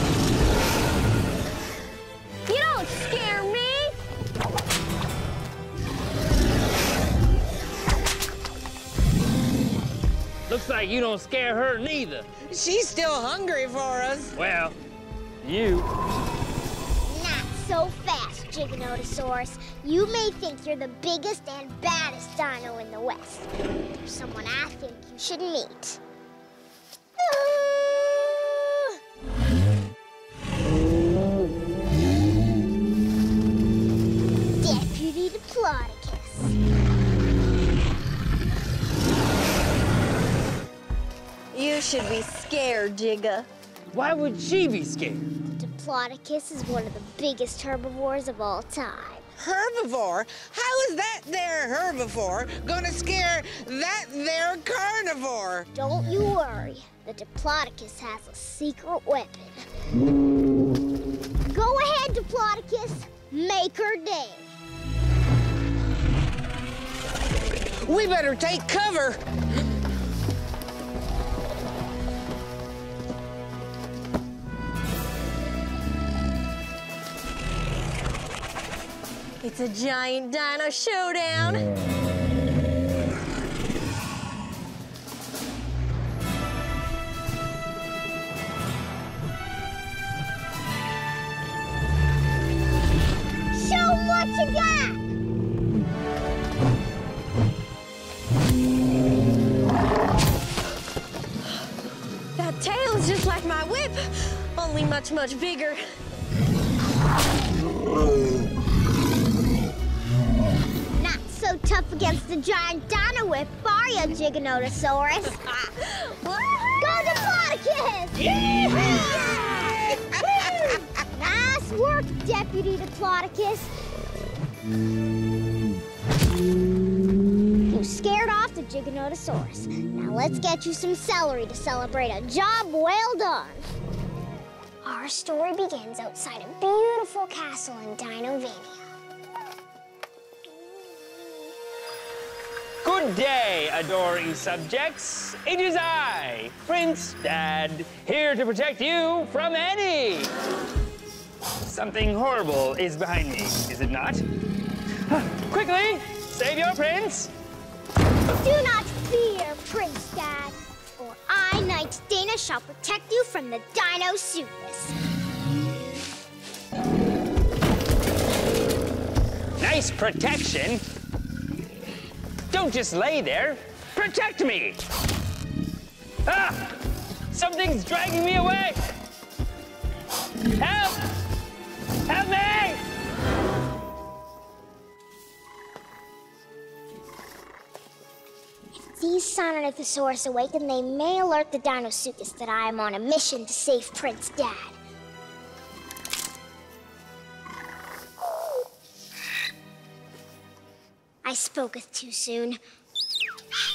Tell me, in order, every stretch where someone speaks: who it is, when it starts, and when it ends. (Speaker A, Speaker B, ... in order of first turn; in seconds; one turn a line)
Speaker A: 2.5-4.0
Speaker B: 10.5-12.3
Speaker C: 12.4-14.3
Speaker B: 14.3-14.8
Speaker B: 15.4-15.9
Speaker D: 17.1-23.5
Speaker D: 24.0-26.0
Speaker D: 27.3-28.8
Speaker D: 34.6-36.5
Speaker A: 41.5-43.5
Speaker B: 43.9-45.3
Speaker D: 45.5-49.2
Speaker C: 49.4-55.7
Speaker D: 55.7-59.6
Speaker D: 61.5-64.5
Speaker C: 67.8-69.2
Speaker A: 79.4-81.7
Speaker D: 93.5-95.0
Speaker A: 102.3-106.0
Speaker D: 111.0-115.7
Speaker D: 116.5-123.7
Speaker D: 127.7-133.7
Speaker D: 134.8-138.8
Speaker B: 142.8-150.3
Speaker B: 151.6-154.2
Speaker B: 155.1-157.3
Speaker D: 158.3-164.9
Speaker B: 169.6-170.8
Speaker B: 172.5-174.8
Speaker B: 176.2-176.8
Speaker B: 177.3-178.8
Speaker B: 180.5-181.0
Speaker B: 182.1-182.8
Speaker D: 188.8-194.8
Speaker D: 201.2-202.6